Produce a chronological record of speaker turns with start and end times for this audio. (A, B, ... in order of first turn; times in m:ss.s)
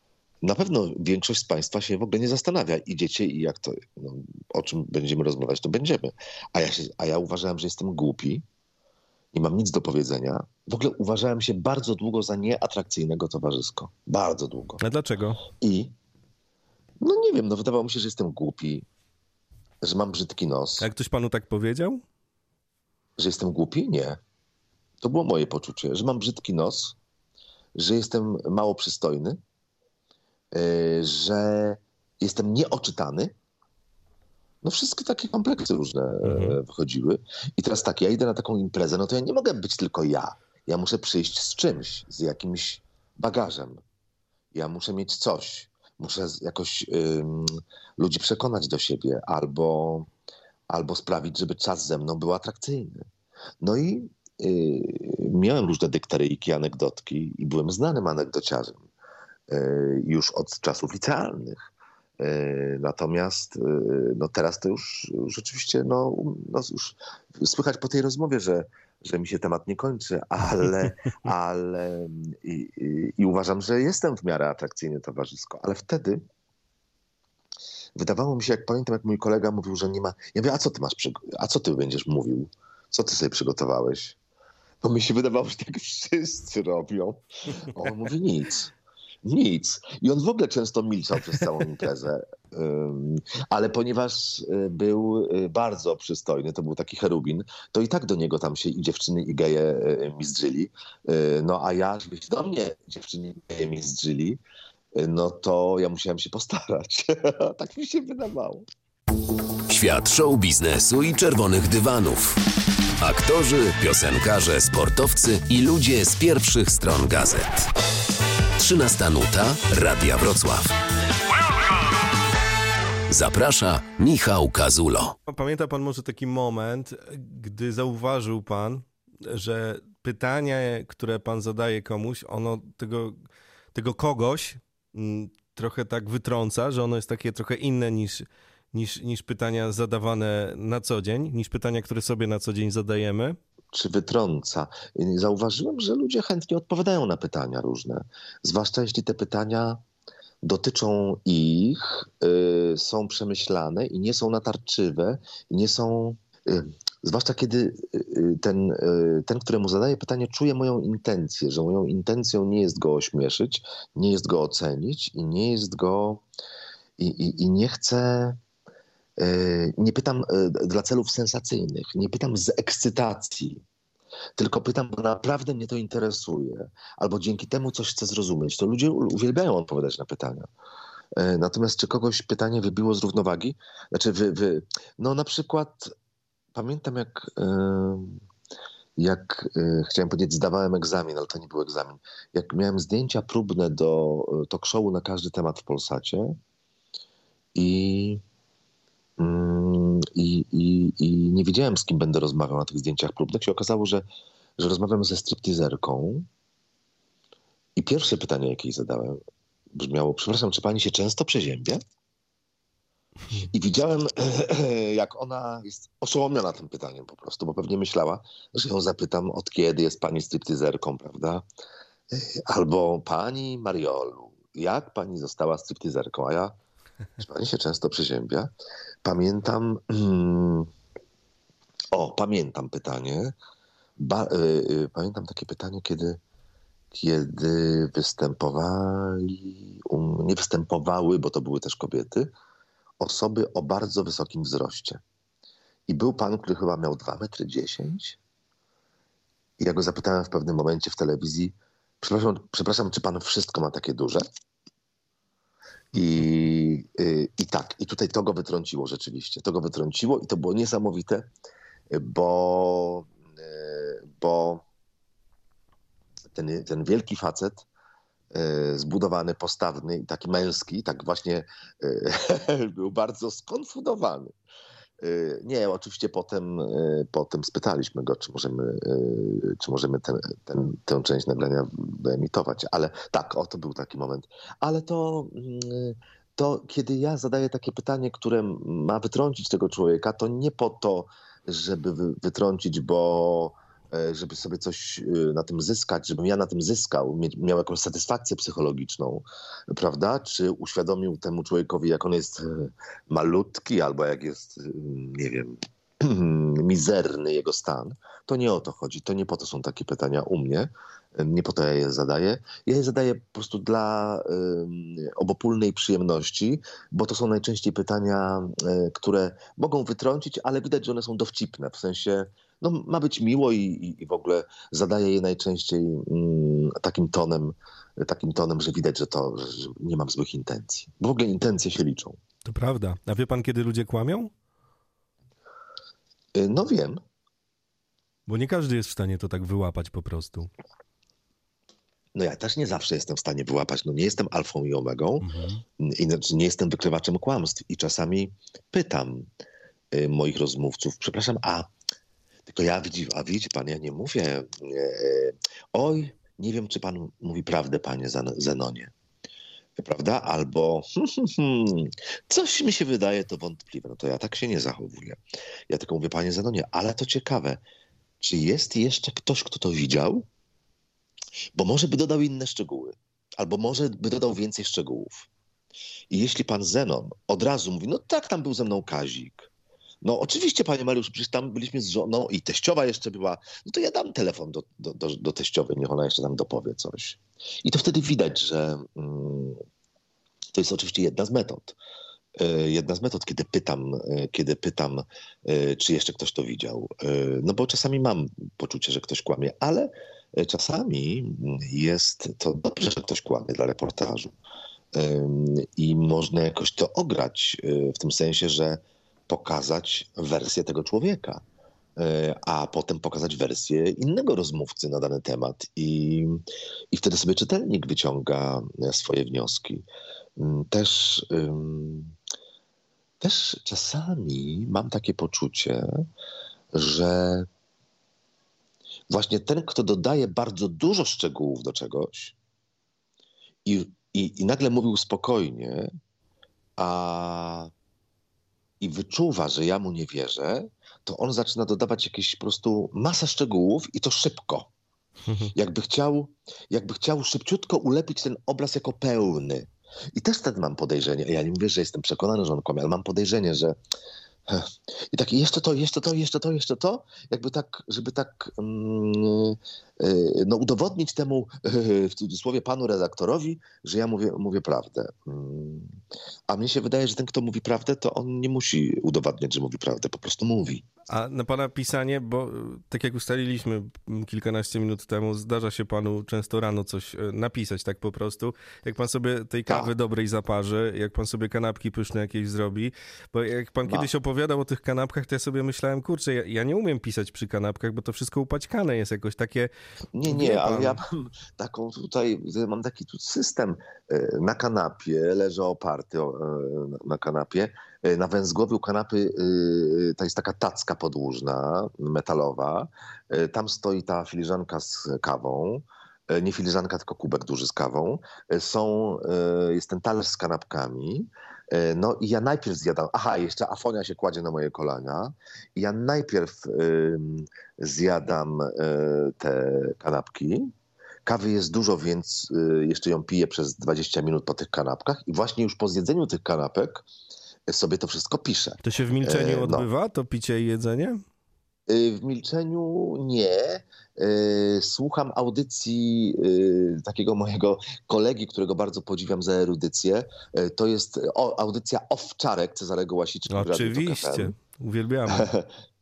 0:00.4-0:08.4 A
0:09.3-0:14.8 A
0:14.8-0:15.4 B
0:15.6-0:15.9 A
0:17.0-0:18.8 A
0:19.8-0:20.9 A
0:20.8-0:22.0 B
0:23.2-0:24.2 A
0:25.0-0:27.0 A
0:27.8-0:29.4 A
0:30.5-0:33.3 A
0:34.6-0:43.8 A
0:36.2-0:36.6 B
0:44.5-0:50.1 A
0:50.7-0:53.0 A
0:53.6-0:58.8 A
0:59.5-1:16.2 A
1:18.0-1:24.2 A
1:24.8-1:44.4 A
1:45.0-1:48.6 A
1:49.7-1:52.4 C
1:53.0-1:57.7 C
1:58.6-2:00.8 C
2:03.1-2:05.2 C
2:05.3-2:23.4 B
2:23.7-2:29.8 A
2:30.4-2:46.2 A
2:47.0-2:48.4 A
2:49.2-2:53.6 A
2:54.4-3:00.5 A
3:01.2-3:05.9 A
3:06.5-3:08.2 A
3:09.0-3:16.4 A
3:17.6-3:18.2 A
3:19.2-3:24.0 A
3:24.6-3:26.3 A
3:27.8-3:29.2 A
3:29.7-3:31.8 A
3:33.4-3:41.4 A
3:42.1-3:46.5 A
3:47.2-3:48.5 A
3:49.0-3:50.7 A
3:51.9-3:53.4 A
3:54.0-3:56.2 A
3:56.9-4:02.3 A
4:03.0-4:05.0 A
4:05.9-4:08.2 A
4:09.6-4:14.2 A
4:15.9-4:21.3 A
4:21.9-4:24.6 A
4:26.3-4:27.6 A
4:28.3-4:34.3 A
4:35.0-5:32.2 A
5:32.4-5:34.3 B
5:36.3-5:37.0 A
5:38.3-5:40.5 B
5:42.2-5:49.3 A
5:45.2-5:45.6 B
5:49.9-5:51.7 A
5:52.5-5:58.9 A
5:59.8-6:05.2 A
6:05.7-6:07.6 A
6:08.2-6:10.2 A
6:11.6-6:15.3 A
6:16.1-6:19.5 A
6:20.0-6:29.6 A
6:30.5-6:31.8 A
6:32.4-6:44.3 A
6:44.9-6:51.4 A
6:52.0-6:59.9 A
7:00.4-7:02.1 A
7:03.2-7:06.0 A
7:06.7-7:07.5 A
7:09.1-7:12.4 A
7:13.7-7:15.9 A
7:16.8-7:17.7 A
7:18.8-7:24.7 A
7:25.3-7:25.5 B
7:25.5-7:33.8 A
7:34.5-7:46.0 A
7:46.5-7:50.9 A
7:51.1-8:09.7 B
8:03.8-8:04.1 A
8:10.2-8:40.7 A
8:10.3-8:11.0 B
8:41.3-8:47.0 A
8:47.7-8:49.9 A
8:48.8-8:51.2 B
8:51.9-9:04.5 A
9:03.5-9:05.5 B
9:05.3-9:05.7 A